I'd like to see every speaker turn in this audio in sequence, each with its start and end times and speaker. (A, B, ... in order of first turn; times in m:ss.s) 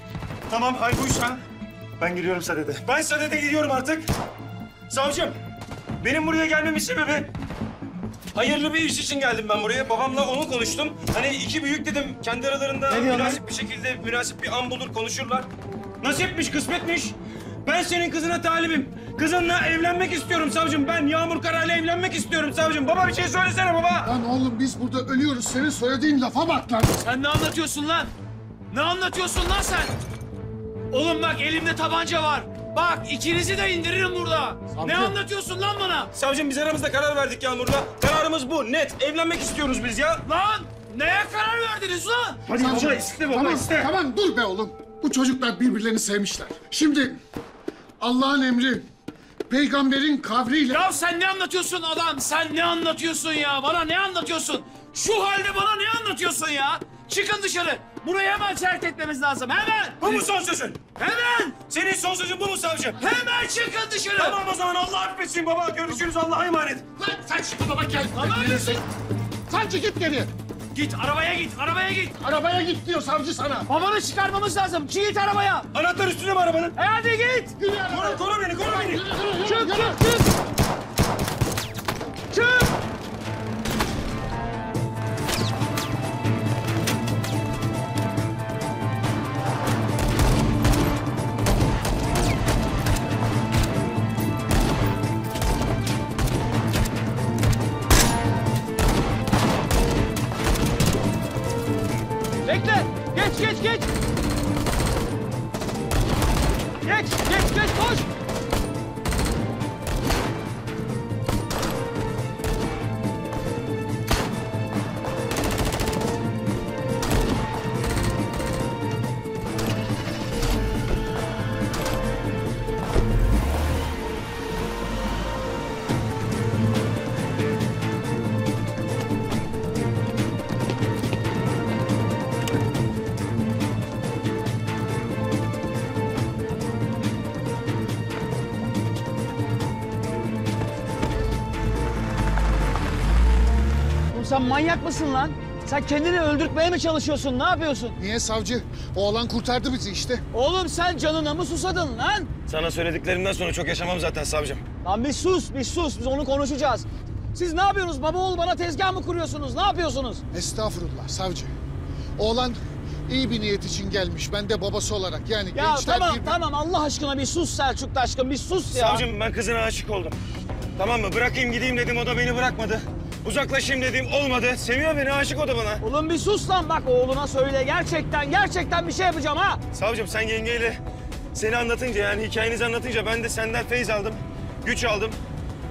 0:00.5-0:01.4 A
0:02.0-0:04.1 A
0:04.9-0:05.4 A
0:06.0-0:07.3 A
0:08.3-0:15.5 A
0:12.9-0:13.4 B
0:16.0-0:24.1 A
0:24.0-0:27.0 C
0:27.0-0:28.1 B
0:28.7-0:30.0 B
0:30.9-0:36.1 B
0:34.7-0:35.2 C
0:36.1-0:40.2 A
0:40.2-0:42.4 B
0:42.4-0:43.9 A
0:42.5-0:47.2 C
0:48.0-0:48.9 C
0:49.5-0:50.9 C
0:50.7-1:00.2 B
1:00.0-1:00.8 A
1:01.0-1:01.6 B
1:01.7-1:03.0 A
1:03.0-1:04.4 B
1:04.1-1:06.8 A
1:07.0-1:08.8 C
1:08.1-1:08.8 B
1:09.5-1:10.3 C
1:10.7-1:12.2 B
1:12.2-1:13.7 C
1:13.7-1:15.7 B
1:15.7-1:16.8 A
1:16.8-1:17.6 B
1:17.6-1:20.2 C
1:17.9-1:19.1 A
1:19.4-1:20.3 B
1:22.3-1:22.8 B
1:42.4-1:43.9 B
1:46.8-1:48.1 B
2:24.1-2:28.0 B
2:28.0-2:30.2 C
2:30.3-2:32.3 B
2:32.5-2:34.6 A
2:34.8-2:40.2 B
2:40.3-2:41.5 C
2:42.2-2:46.4 C
2:45.5-2:49.0 B
2:48.7-2:50.2 A
2:50.8-2:55.8 A
2:55.8-2:59.6 B
2:59.7-3:00.8 A
3:01.3-3:05.2 A